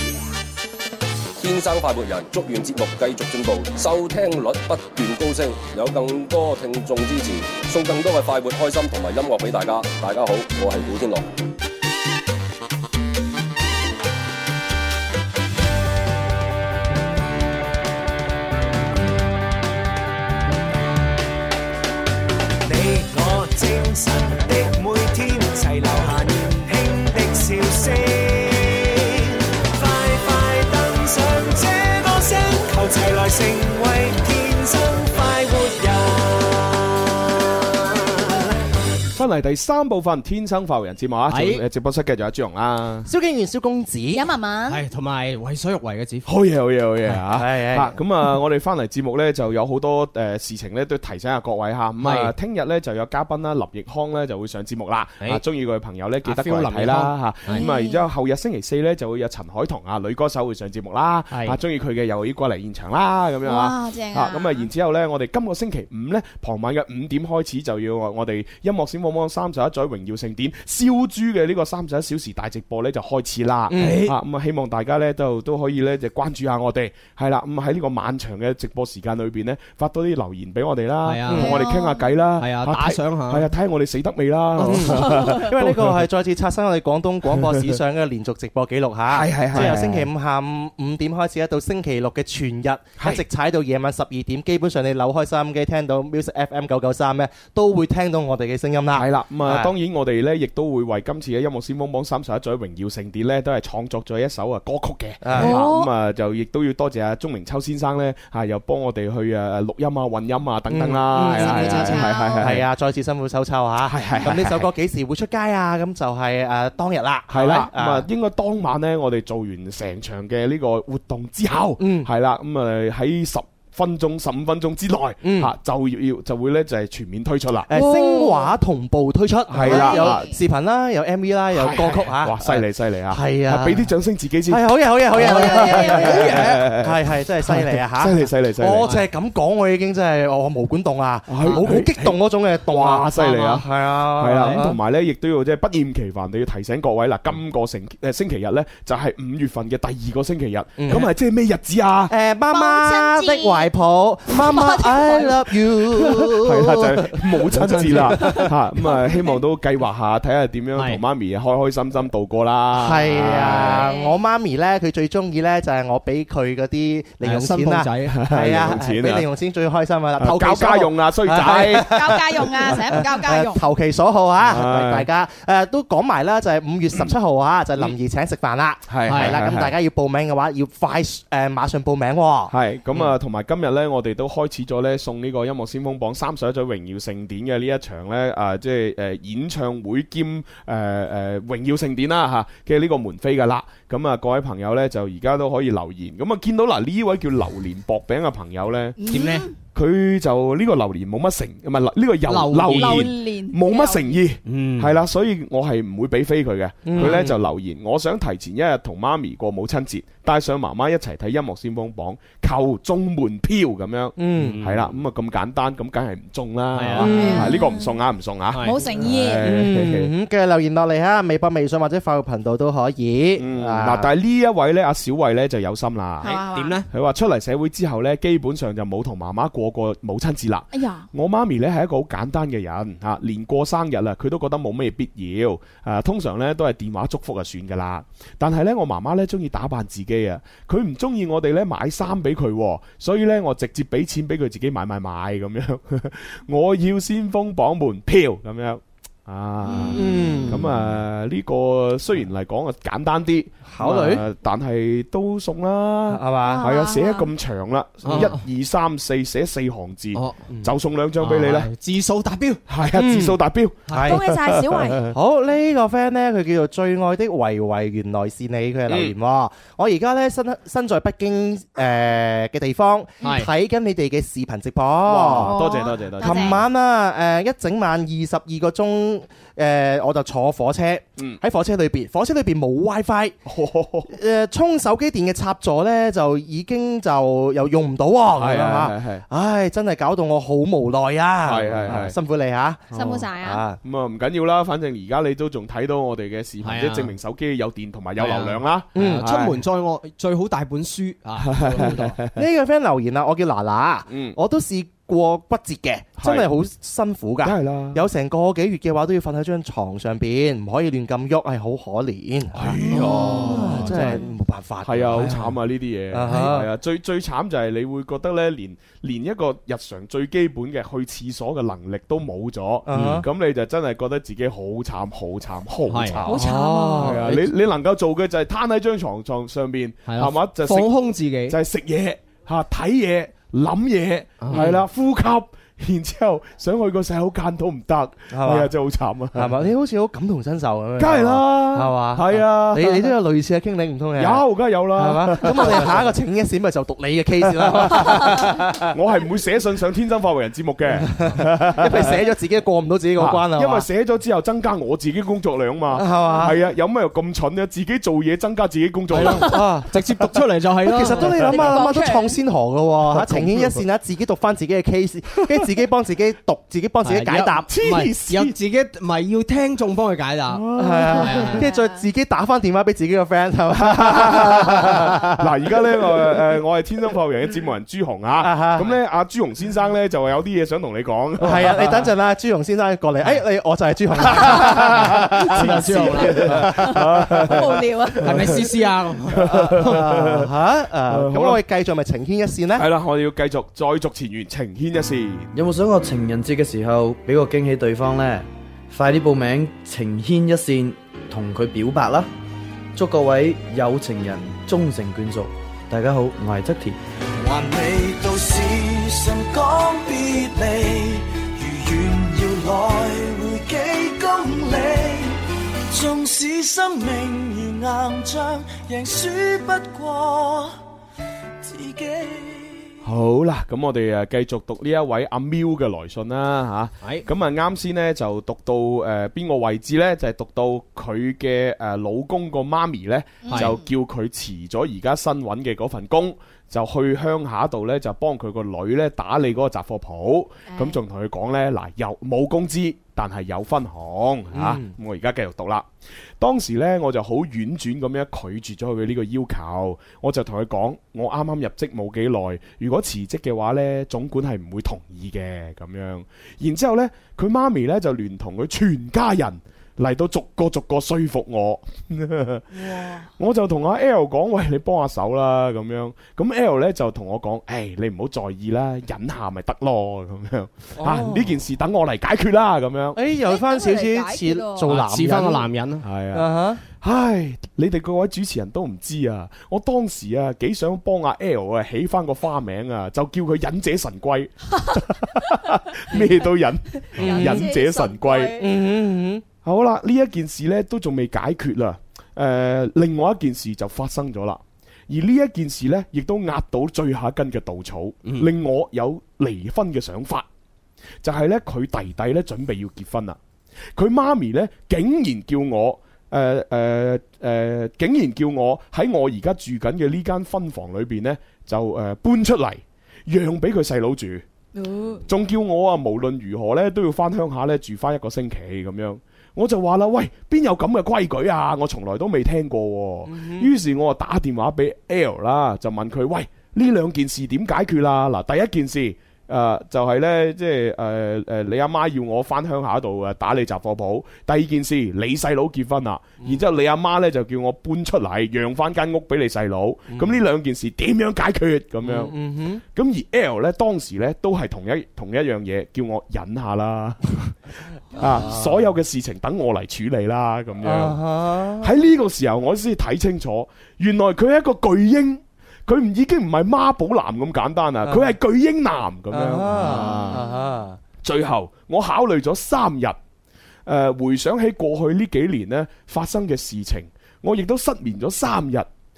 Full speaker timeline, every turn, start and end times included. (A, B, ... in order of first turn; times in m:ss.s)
0:01.4-0:11.3 A
0:22.6-0:37.2 B
0:39.1-0:43.1 C
0:41.3-0:41.6 D
0:43.1-0:44.2 E
0:44.1-0:44.8 F
0:44.7-0:46.3 D
0:46.3-1:26.1 C
0:47.3-0:48.0 E
0:52.0-0:52.3 D
0:56.2-0:57.7 D
0:57.5-0:58.0 F
1:01.3-1:01.6 D
1:03.4-1:04.7 F
1:13.7-1:14.0 E
1:13.7-1:14.2 D
1:21.0-1:21.6 D
1:21.3-1:22.1 F
1:22.4-1:23.5 D
1:24.6-1:25.1 D
1:24.6-1:39.7 E
1:25.0-1:25.5 F
1:29.1-1:30.1 C
1:38.9-1:52.6 C
1:45.2-1:45.6 E
1:45.4-1:45.9 F
1:50.7-1:58.1 E
1:51.2-1:52.5 F
1:53.9-1:54.7 C
1:57.3-2:07.7 C
2:01.8-2:02.1 E
2:05.2-2:05.5 E
2:07.7-2:13.9 E
2:07.7-2:08.5 F
2:09.5-2:10.3 C
2:09.6-2:10.4 F
2:11.5-2:18.9 C
2:14.5-2:24.8 E
2:15.2-2:16.5 F
2:21.3-2:23.7 C
2:24.2-2:32.1 C
2:24.4-2:24.7 D
2:30.8-2:31.1 E
2:32.1-2:38.5 E
2:32.5-2:33.7 F
2:34.3-2:36.0 F
2:36.4-2:43.9 C
2:38.2-2:39.4 F
2:40.8-2:41.0 D
2:42.8-3:02.5 E
2:43.8-2:44.2 F
2:47.2-2:48.2 D
2:48.1-2:49.3 C
2:50.2-2:52.1 C
2:51.8-2:53.6 F
2:54.4-2:55.1 C
2:58.9-2:59.7 C
2:59.0-2:59.4 D
3:02.5-3:19.0 C
3:19.0-3:19.5 F
3:19.1-3:19.5 D
3:19.7-3:40.1 C
3:22.3-3:23.1 D
3:22.8-3:24.2 F
3:24.4-3:25.0 D
3:26.9-3:27.4 E
3:34.2-3:34.6 E
3:34.4-3:34.9 D
3:36.7-3:37.5 D
3:37.0-3:37.6 E
3:37.1-3:38.0 F
3:38.5-3:38.9 D
3:38.6-3:39.4 F
3:39.4-3:44.1 E
3:43.4-3:46.3 C
3:46.2-3:46.8 F
3:46.2-3:46.9 D
3:46.9-4:21.7 C
3:50.7-3:51.1 F
4:09.6-4:10.7 F
4:09.9-4:10.6 E
4:13.7-4:14.2 E
4:16.1-4:16.7 E
4:16.4-4:17.3 F
4:18.0-4:18.4 D
4:20.2-4:20.4 D
4:21.2-4:22.6 D
4:22.7-4:25.1 C
4:22.9-4:23.4 E
4:23.9-4:24.2 D
4:23.9-4:24.2 E
4:24.1-4:25.1 F
4:25.1-4:35.6 E
4:33.2-4:33.5 D
4:35.0-4:36.6 C
4:35.3-4:36.6 F
4:36.2-4:43.4 E
4:43.5-4:44.1 C
4:44.1-4:52.8 E
4:48.4-4:49.2 C
4:51.4-4:52.2 C
4:52.9-4:53.3 C
4:52.9-4:53.6 F
4:53.4-4:53.8 E
4:53.8-4:59.6 C
4:56.6-4:57.2 D
4:58.2-5:02.2 D
4:59.0-4:59.2 E
5:01.4-5:02.4 C
5:01.8-5:15.5 E
5:04.1-5:04.4 C
5:06.2-5:06.5 C
5:07.4-5:08.0 C
5:12.6-5:14.2 C
5:12.9-5:14.3 F
5:14.8-5:39.5 C
5:16.1-5:16.7 E
5:22.9-5:23.2 E
5:22.9-5:23.2 D
5:25.9-5:26.3 D
5:26.3-5:27.2 F
5:26.3-5:27.4 E
5:30.1-5:31.6 D
5:34.4-5:34.8 D
5:38.3-5:38.7 E
5:39.3-5:44.4 E
5:41.0-5:43.1 C
5:44.2-5:46.0 C
5:45.0-5:48.9 E
5:47.6-5:52.2 C
5:51.0-5:53.9 E
5:53.2-5:59.6 C
5:55.9-5:56.6 E
5:59.1-6:01.6 D
5:59.1-5:59.9 E
6:00.8-6:07.7 E
6:01.4-6:02.4 F
6:03.2-6:03.8 C
6:07.0-6:11.7 D
6:07.7-6:08.6 C
6:10.5-6:11.6 C
6:10.8-6:15.4 E
6:11.3-6:12.0 F
6:13.8-6:22.1 C
6:18.4-6:18.9 E
6:21.4-6:27.0 E
6:24.3-6:28.6 C
6:25.5-6:26.6 D
6:26.6-6:28.6 F
6:28.2-6:30.0 D
6:29.3-6:30.5 C
6:29.4-6:32.9 E
6:31.1-6:31.6 C
6:32.8-6:35.5 C
6:35.5-6:42.3 G
6:43.0-6:47.0 G
6:47.4-6:55.4 H
6:55.9-7:00.8 H
7:01.6-7:02.9 H
7:03.0-7:25.9 C
7:13.4-7:13.8 F
7:13.5-7:13.8 D
7:20.7-7:21.0 F
7:24.5-7:24.9 E
7:26.4-7:53.2 C
7:42.8-7:43.2 F
7:51.0-7:51.6 E
7:53.2-7:55.7 E
7:53.4-7:54.9 F
7:54.8-7:56.1 D
7:56.0-8:08.6 C
7:56.3-7:56.8 E
8:07.0-8:08.7 F
8:07.2-8:07.7 E
8:08.6-8:09.4 E
8:09.6-8:20.5 C
8:21.2-8:23.4 C
8:24.0-8:34.4 C
8:34.8-8:35.2 F
8:35.2-9:02.3 C
8:43.3-8:43.7 E
9:00.1-9:00.4 E
9:02.0-9:02.8 E
9:02.9-9:07.6 C
9:08.1-9:11.2 C
9:08.2-9:08.7 E
9:10.8-9:11.9 E
9:11.8-9:20.4 C
9:19.3-9:21.0 E
9:19.8-9:20.7 F
9:21.2-9:23.2 C
9:23.9-9:28.9 C